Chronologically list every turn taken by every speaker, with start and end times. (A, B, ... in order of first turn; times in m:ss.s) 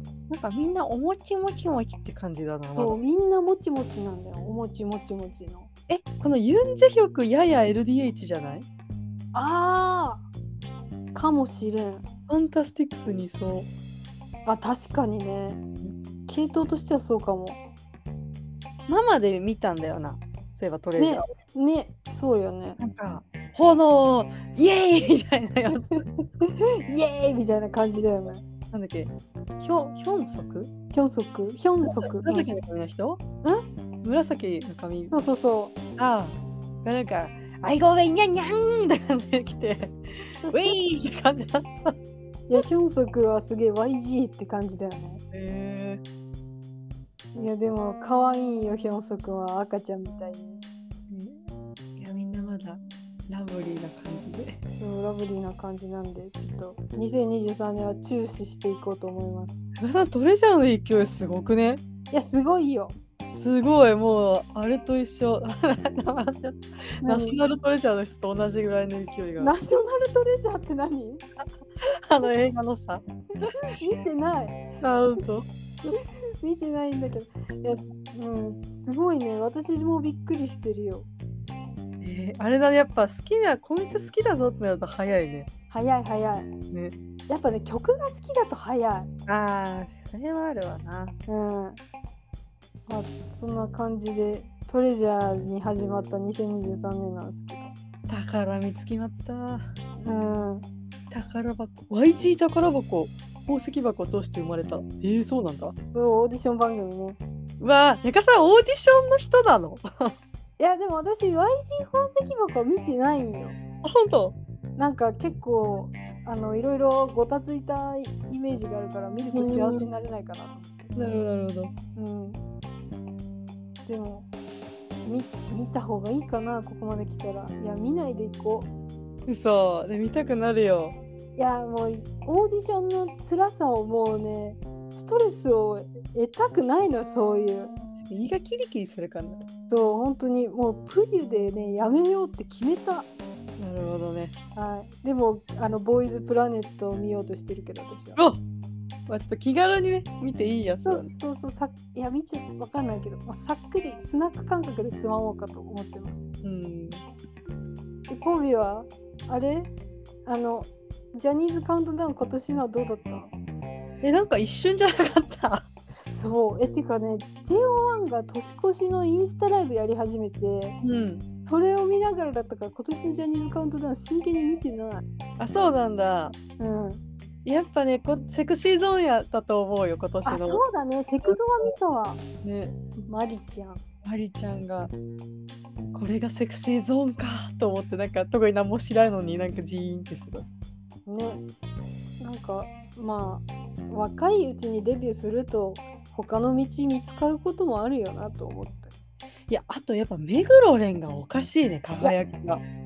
0:00.3-0:03.0 A
0:02.8-0:05.7 B
0:05.9-0:08.6 A
0:09.3-0:10.2 B
0:11.1-0:12.0 B
0:12.3-0:13.7 A
0:14.4-0:15.6 B
0:16.3-0:17.6 B
0:18.9-0:21.2 A
0:21.0-0:22.8 B
0:22.8-0:26.0 A
0:25.7-0:28.4 B
0:28.7-0:30.7 A
0:30.9-0:32.5 B
0:31.8-0:33.2 A
0:34.0-0:35.2 A
0:35.1-0:35.7 B
0:36.0-0:41.9 A
0:42.5-0:45.2 B
0:45.3-0:46.0 A
0:47.3-0:50.6 B
0:51.1-0:51.4 A
0:52.0-0:54.6 A
0:54.8-0:59.6 B
0:59.7-1:01.8 A
1:02.1-1:02.9 B
1:03.3-1:09.5 A
1:07.0-1:07.4 B
1:09.4-1:11.2 B
1:11.8-1:13.5 A
1:13.6-1:14.6 B
1:14.8-1:16.0 A
1:16.4-1:21.1 B
1:22.0-1:25.5 A
1:25.7-1:26.5 B
1:27.3-1:29.1 B
1:29.3-1:31.1 A
1:31.3-1:31.8 B
1:32.9-1:37.7 B
1:38.1-1:39.7 A
1:40.0-1:40.6 B
1:41.1-1:45.7 A
1:45.9-1:47.2 B
1:47.6-1:50.1 A
1:50.6-1:53.6 B
1:53.8-1:54.4 A
1:54.8-2:00.9 B
1:59.3-1:59.9 A
2:01.0-2:01.7 A
2:02.0-2:02.4 B
2:03.8-2:04.3 B
2:05.0-2:08.7 B
2:09.3-2:11.0 A
2:11.4-2:17.7 B
2:18.0-2:19.4 A
2:19.7-2:23.1 B
2:23.6-2:24.3 A
2:24.5-2:28.2 B
2:28.2-2:28.4 A
2:29.1-2:31.1 A
2:30.8-2:36.3 B
2:36.4-2:37.0 A
2:38.1-2:39.7 B
2:40.2-2:43.3 B
2:44.0-2:45.6 A
2:46.1-2:50.8 B
2:50.8-2:51.2 A
2:51.4-2:55.0 B
2:55.4-2:56.4 A
2:56.6-2:57.0 B
2:57.4-3:00.6 A
3:00.2-3:02.2 B
3:01.2-3:01.7 A
3:02.4-3:02.8 A
3:03.0-3:03.8 B
3:04.0-3:04.9 A
3:05.9-3:10.4 A
3:11.0-3:11.4 B
3:12.2-3:18.9 B
3:19.5-3:22.6 A